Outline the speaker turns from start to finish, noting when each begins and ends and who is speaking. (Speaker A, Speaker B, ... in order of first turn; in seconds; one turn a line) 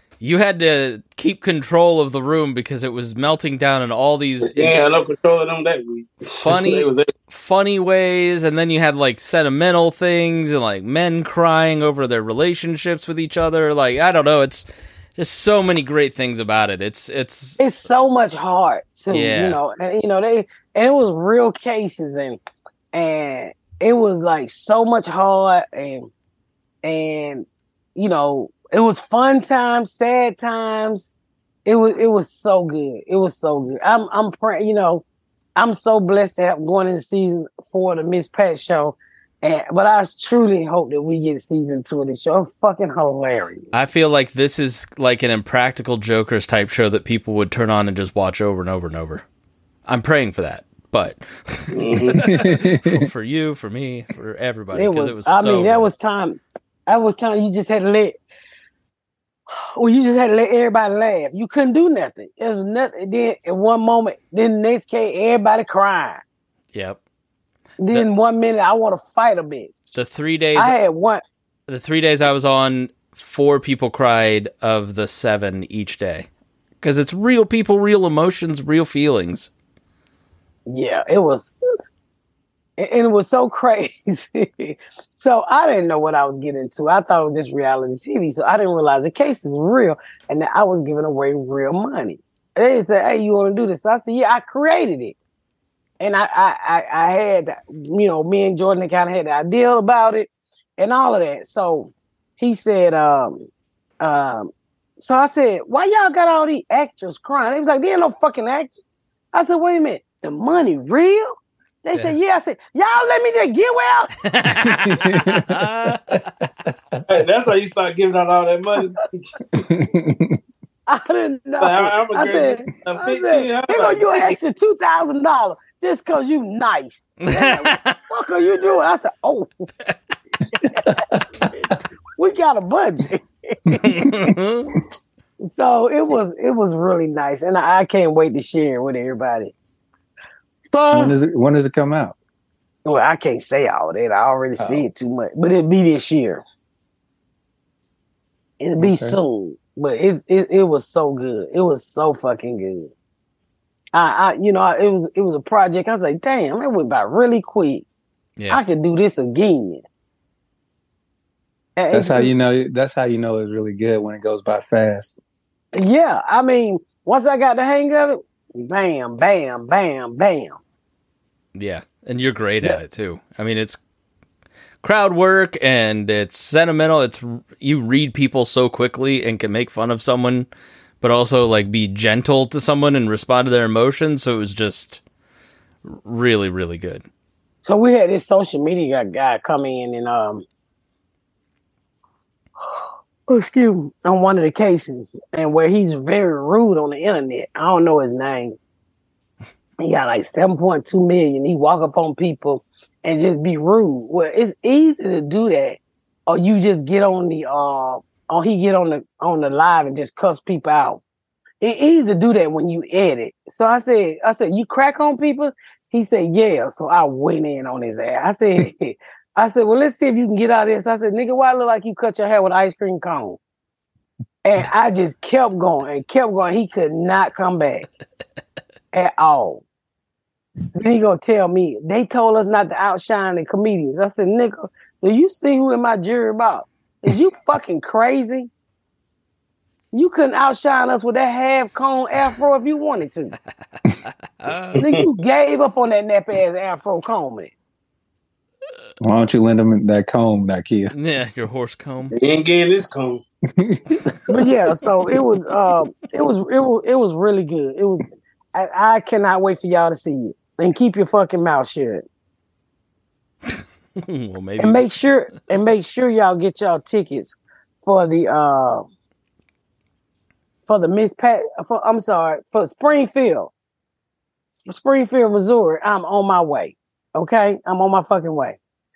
Speaker A: 0.2-4.8
Speaker B: 4.4-7.1
Speaker A: 6.4-14.6
Speaker A: 15.2-17.6
Speaker C: 17.6-22.4
Speaker A: 19.1-19.6
Speaker C: 22.9-26.1
Speaker C: 26.8-31.1
Speaker C: 31.6-35.0
Speaker C: 35.5-43.7
Speaker A: 43.7-49.2
Speaker A: 49.9-55.9
Speaker B: 51.7-52.3
Speaker D: 52.2-53.0
Speaker C: 54.7-58.2
Speaker C: 59.5-66.2
Speaker A: 66.7-67.0
Speaker C: 67.8-69.8
Speaker A: 69.9-70.7
Speaker C: 70.5-71.2
Speaker A: 71.7-76.3
Speaker A: 76.8-79.5
Speaker C: 80.7-81.5
Speaker C: 82.8-95.1
Speaker C: 96.0-103.5
Speaker C: 104.0-108.7
Speaker C: 109.3-111.3
Speaker C: 111.8-114.1
Speaker A: 114.2-116.3
Speaker D: 114.6-116.2
Speaker B: 117.1-119.6
Speaker D: 119.6-120.4
Speaker C: 120.9-129.7
Speaker B: 121.6-124.3
Speaker A: 127.2-128.0
Speaker D: 130.9-131.2
Speaker C: 132.2-133.8
Speaker A: 133.8-134.7
Speaker D: 134.0-134.3
Speaker C: 135.4-139.5
Speaker C: 140.7-141.1
Speaker D: 140.9-142.2
Speaker C: 142.8-146.4
Speaker C: 148.6-152.9
Speaker D: 148.8-149.2
Speaker C: 153.9-157.8
Speaker A: 158.4-158.6
Speaker C: 158.5-159.8
Speaker C: 161.8-162.3
Speaker D: 161.9-165.2
Speaker C: 165.7-170.6
Speaker A: 171.5-173.8
Speaker A: 174.8-180.5
Speaker A: 181.0-185.0
Speaker A: 185.8-187.0
Speaker C: 187.6-190.4
Speaker C: 192.6-198.6
Speaker C: 199.8-211.0
Speaker C: 211.6-223.4
Speaker C: 224.4-227.9
Speaker C: 228.9-229.6
Speaker C: 230.7-238.5
Speaker C: 239.9-243.3
Speaker A: 244.4-244.8
Speaker B: 244.8-245.1
Speaker C: 244.8-247.5
Speaker D: 249.0-250.9
Speaker A: 250.9-252.1
Speaker B: 252.1-253.2
Speaker D: 253.5-253.9
Speaker C: 254.3-262.0
Speaker A: 263.6-264.8
Speaker C: 264.6-268.9
Speaker C: 270.7-273.5
Speaker C: 274.7-278.6